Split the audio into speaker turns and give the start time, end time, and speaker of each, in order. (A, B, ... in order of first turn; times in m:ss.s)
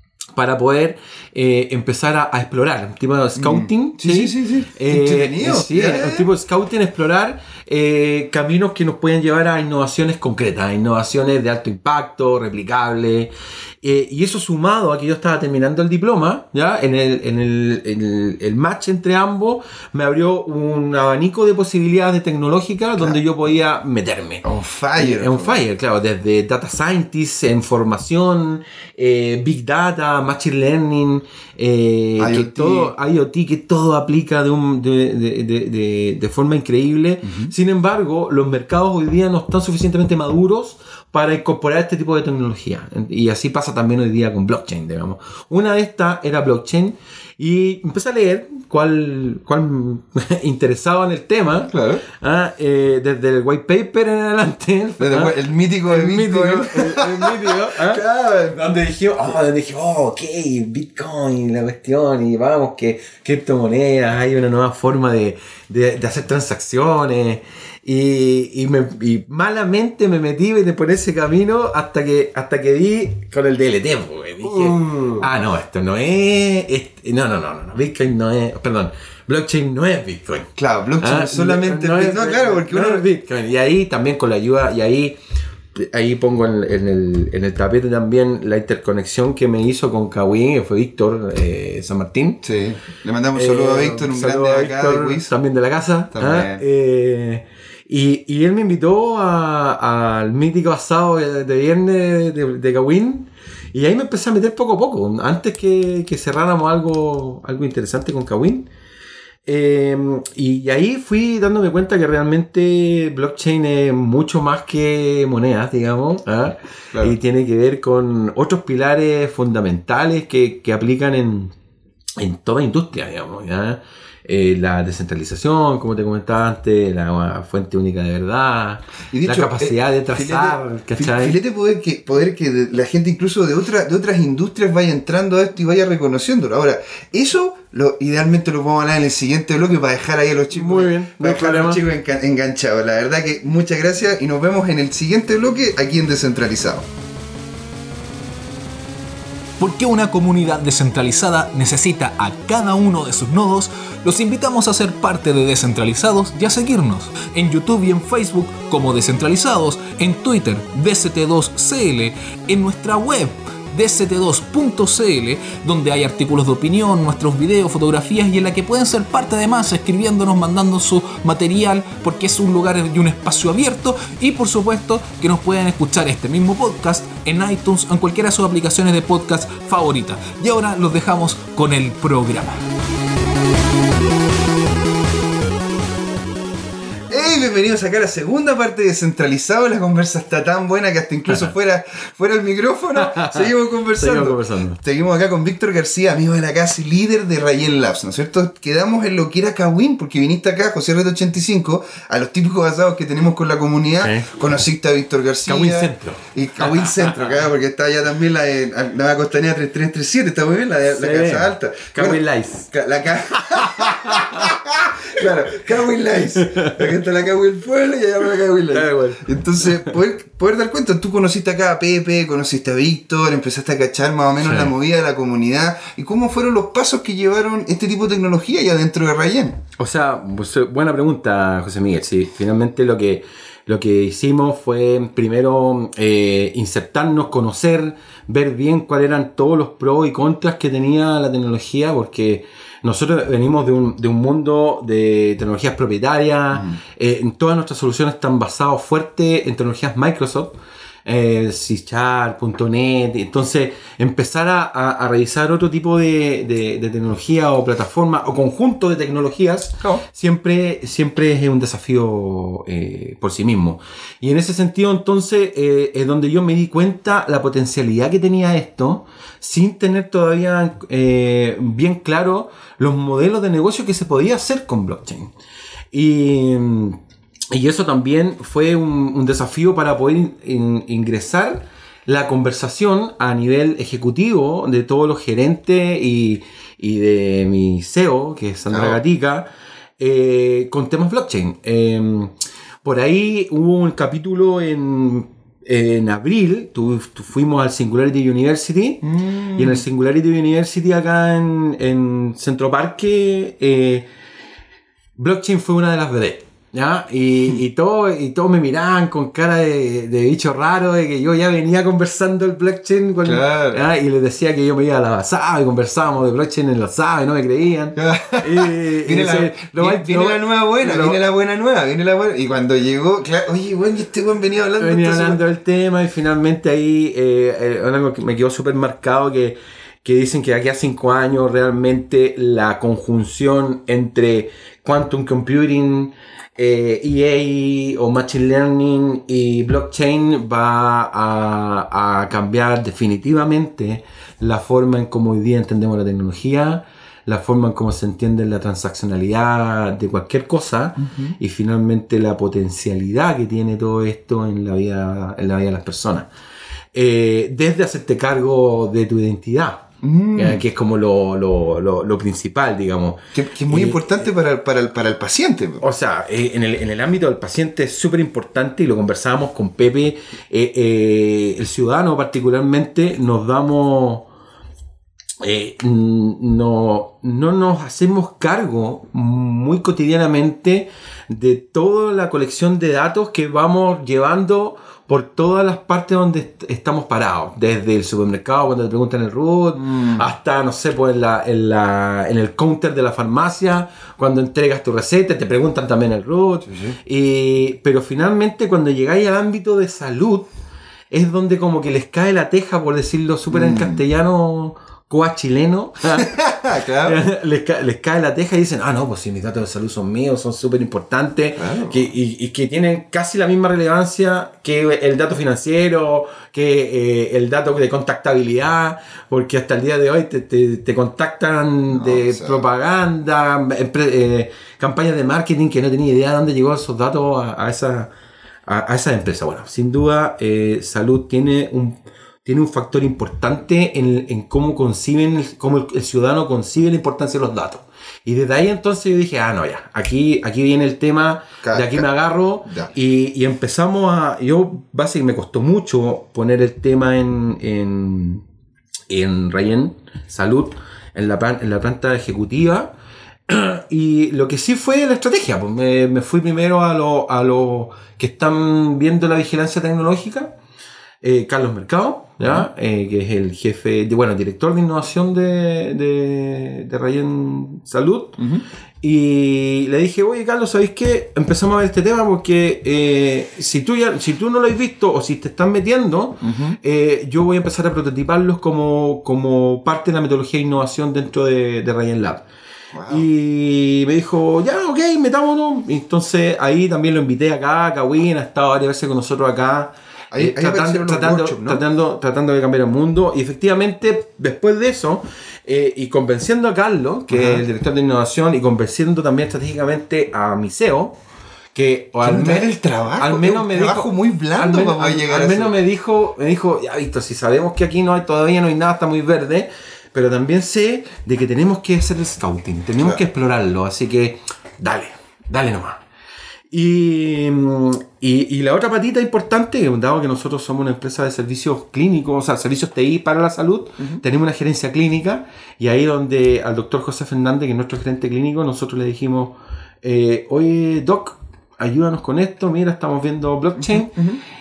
0:00.3-1:20.5 A
0:03.4-0:06.3 B
0:24.4-0:25.6 B
0:32.2-0:32.9 B
0:37.2-0:37.5 B
0:51.7-0:52.0 B
0:55.0-0:58.6 B
1:14.4-1:15.3 B
1:20.6-1:23.0 B
1:21.0-1:25.2 A
1:25.7-1:32.4 A
1:32.4-1:35.3 B
1:33.3-1:48.7 A
1:36.1-1:36.6 B
1:49.4-2:01.5 A
2:02.2-2:11.4 A
2:09.1-2:26.9 B
2:20.5-2:21.8 A
2:29.6-3:02.6 C
3:07.1-3:49.6 B
3:13.0-3:14.8 A
3:24.0-3:24.3 A
3:25.5-3:27.3 A
3:30.8-3:32.7 A
3:33.4-3:34.5 A
3:36.4-3:36.8 A
3:38.7-3:39.3 A
3:44.4-3:44.7 A
3:49.8-4:35.3 A
4:35.9-4:37.0 A
4:37.5-5:04.1 A
4:48.7-4:49.0 B
4:59.1-4:59.8 B
5:05.2-5:21.2 A
5:13.2-5:13.8 B
5:18.0-5:25.4 B
5:24.8-5:56.3 A
5:51.0-5:51.3 B
5:56.9-6:04.2 A
6:00.0-6:00.6 B
6:03.3-6:05.8 B
6:05.8-6:14.3 A
6:15.4-6:40.5 A
6:29.8-6:30.2 B
6:36.6-6:37.0 B
6:41.1-6:46.3 A
6:43.5-6:44.0 B
6:46.2-6:47.2 B
6:47.0-7:08.1 A
6:51.6-6:52.1 B
7:01.9-7:02.6 B
7:08.7-7:28.4 A
7:21.6-7:22.1 B
7:22.6-7:22.9 B
7:29.1-7:32.9 A
7:33.5-7:40.5 A
7:41.2-7:48.4 A
7:42.4-7:42.6 B
7:48.4-7:48.6 B
7:49.0-8:02.4 A
7:56.4-7:56.8 B
8:02.9-8:03.3 B
8:03.1-8:21.2 A
8:10.3-8:11.8 B
8:17.3-8:17.6 B
8:21.7-8:36.0 A
8:22.2-8:25.8 B
8:36.7-8:54.2 A
8:53.8-8:54.4 B